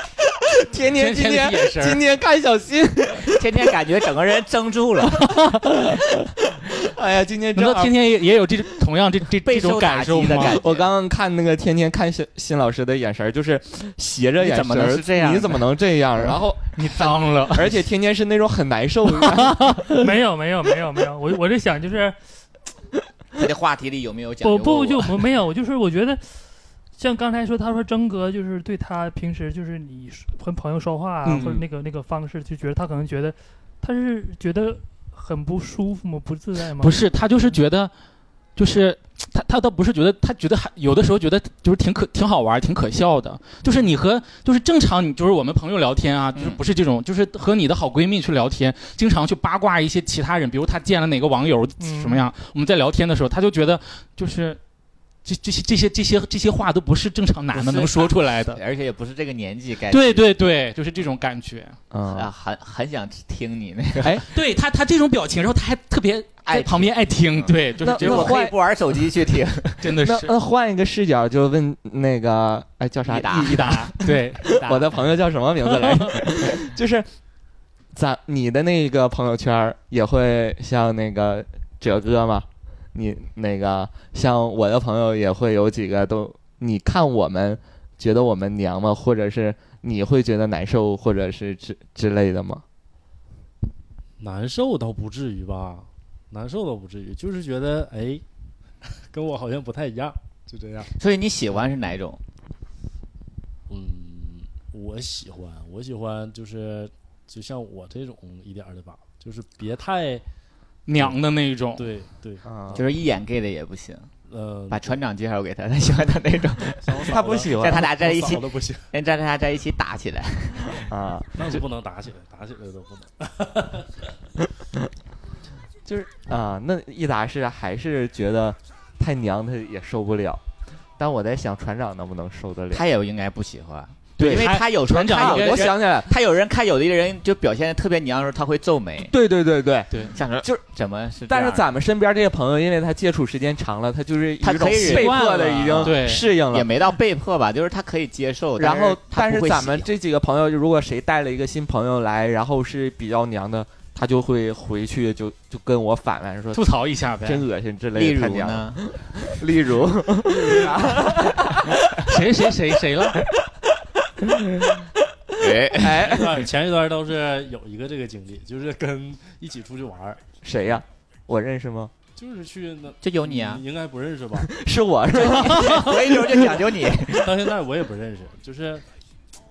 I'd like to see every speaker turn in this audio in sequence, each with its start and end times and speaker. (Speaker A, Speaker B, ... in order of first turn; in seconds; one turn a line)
Speaker A: 0.5-3.7
Speaker B: 0.9-2.0
Speaker C: 3.3-5.3
Speaker A: 5.3-7.9
Speaker B: 7.5-10.6
Speaker C: 9.4-10.9
Speaker A: 10.5-19.8
Speaker C: 14.4-15.7
Speaker B: 16.8-17.8
Speaker B: 19.3-19.9
Speaker D: 20.0-22.1
Speaker C: 23.4-25.2
Speaker D: 24.4-26.4
Speaker D: 27.0-37.6
Speaker B: 31.2-31.6
Speaker B: 36.8-37.9
Speaker B: 38.5-54.6
Speaker C: 46.3-46.6
Speaker D: 51.8-52.2
Speaker B: 55.2-58.6
Speaker C: 57.5-60.2
Speaker B: 59.9-61.8
Speaker A: 61.9-62.3
Speaker C: 62.1-64.2
Speaker A: 64.0-64.2
Speaker B: 64.3-68.4
Speaker C: 66.5-69.8
Speaker A: 67.8-68.5
Speaker B: 69.8-70.3
Speaker A: 70.0-77.1
Speaker C: 73.0-73.9
Speaker B: 73.4-74.5
Speaker C: 74.5-74.9
Speaker A: 77.9-92.6
Speaker E: 94.2-98.2
Speaker E: 99.1-100.9
Speaker C: 101.0-102.2
Speaker E: 103.7-110.2
Speaker B: 110.9-111.9
Speaker E: 111.7-112.8
Speaker A: 112.4-112.8
Speaker C: 112.7-114.1
Speaker E: 114.3-115.0
Speaker C: 114.7-120.9
Speaker E: 116.8-118.9
Speaker A: 117.0-117.9
Speaker A: 120.9-121.6
Speaker E: 121.3-124.1
Speaker A: 125.8-130.4
Speaker A: 131.0-132.8
Speaker C: 132.7-139.1
Speaker B: 134.2-135.7
Speaker A: 134.2-136.1
Speaker A: 139.1-140.6
Speaker C: 140.1-141.7
Speaker A: 141.3-146.7
Speaker C: 144.4-149.9
Speaker B: 144.9-146.2
Speaker A: 148.6-156.6
Speaker B: 156.5-157.4
Speaker A: 157.2-162.1
Speaker C: 157.9-158.9
Speaker B: 161.9-163.2
Speaker A: 164.3-164.8
Speaker C: 165.4-166.2
Speaker A: 165.8-166.4
Speaker E: 165.9-170.2
Speaker A: 170.4-171.9
Speaker E: 172.2-174.5
Speaker C: 173.0-173.6
Speaker A: 174.3-176.4
Speaker C: 175.1-177.3
Speaker E: 177.1-178.8